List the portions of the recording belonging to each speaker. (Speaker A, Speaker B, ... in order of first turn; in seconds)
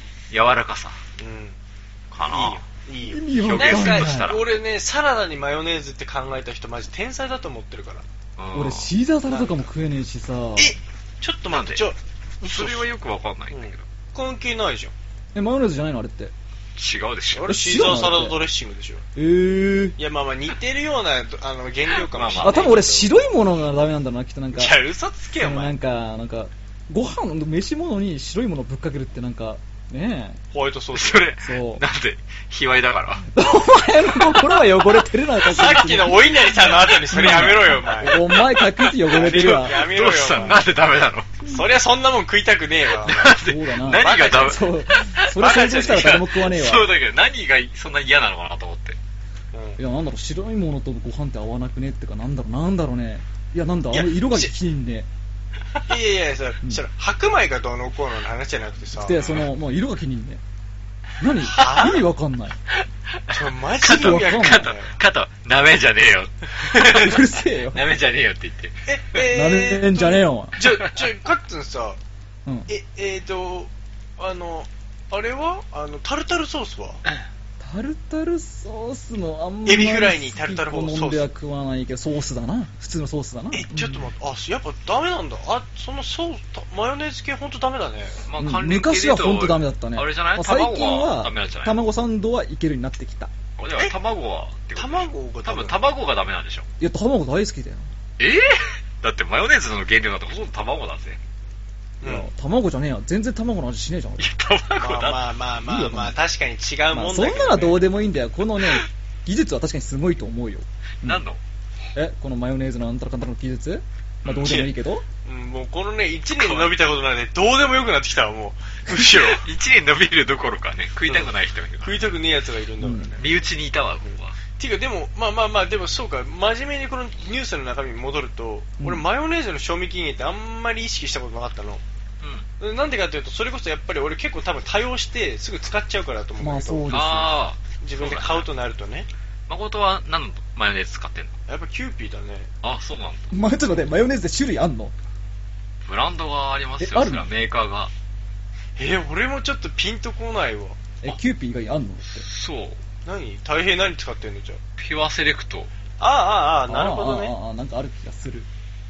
Speaker A: 0.3-1.0, 2.1-2.6, 3.3-4.6, 8.4-8.9, 11.5-11.9, 12.4-13.8, 16.8-17.5, 22.1-22.8, 30.9-33.3, 38.4-41.3, 42.9-49.0, 59.2-59.5, 63.1-68.8, 70.6-71.1, 88.2-91.8, 93.6-96.7, 98.2-101.2, 104.2-105.2, 111.0-111.4, 114.2-114.7, 116.4-116.7, 119.0-122.1, 123.2-124.4, 132.2-132.5, 136.9-138.5, 139.5-141.3, 142.6-143.5, 145.8-147.9, 152.1-152.8, 154.8-155.7
Speaker B: 1.2-1.6, 2.2-8.0, 9.3-9.7, 10.6-12.9, 13.5-14.9, 17.3-19.1, 20.0-23.2, 24.5-25.8, 30.5-31.3, 35.4-38.2, 39.1-40.6, 41.5-44.6, 45.4-46.1, 49.5-49.8, 53.9-54.5, 55.9-59.2, 61.5-62.0, 63.3-65.0, 66.6-67.0, 68.8-72.0, 72.7-77.0, 79.7-81.3, 83.5-88.2, 94.8-95.9, 102.0-102.3, 104.8-107.8, 114.4-114.7, 115.2-119.5, 121.1-123.3, 124.0-131.8, 132.6-136.9, 137.8-139.1, 141.5-142.5, 148.8-150.8, 153.1-154.6, 156.0-157.3
Speaker C: 3.1-4.3, 8.5-10.7, 15.3-16.3, 17.5-18.4, 19.2-20.0, 22.4-24.8, 25.4-30.4, 31.4-31.8, 33.3-39.9, 43.3-46.9, 49.8-55.1, 58.9-60.4, 61.2-62.6, 63.8-64.7, 66.7-67.8, 69.2-70.6, 77.6-84.1, 88.4-93.3, 96.8-97.9, 102.0-104.3, 105.7-106.2, 106.9-111.2, 112.0-115.0, 122.8-123.1, 136.4-137.4, 143.3-144.9, 146.8-147.3, 151.0-152.3, 156.7-158.5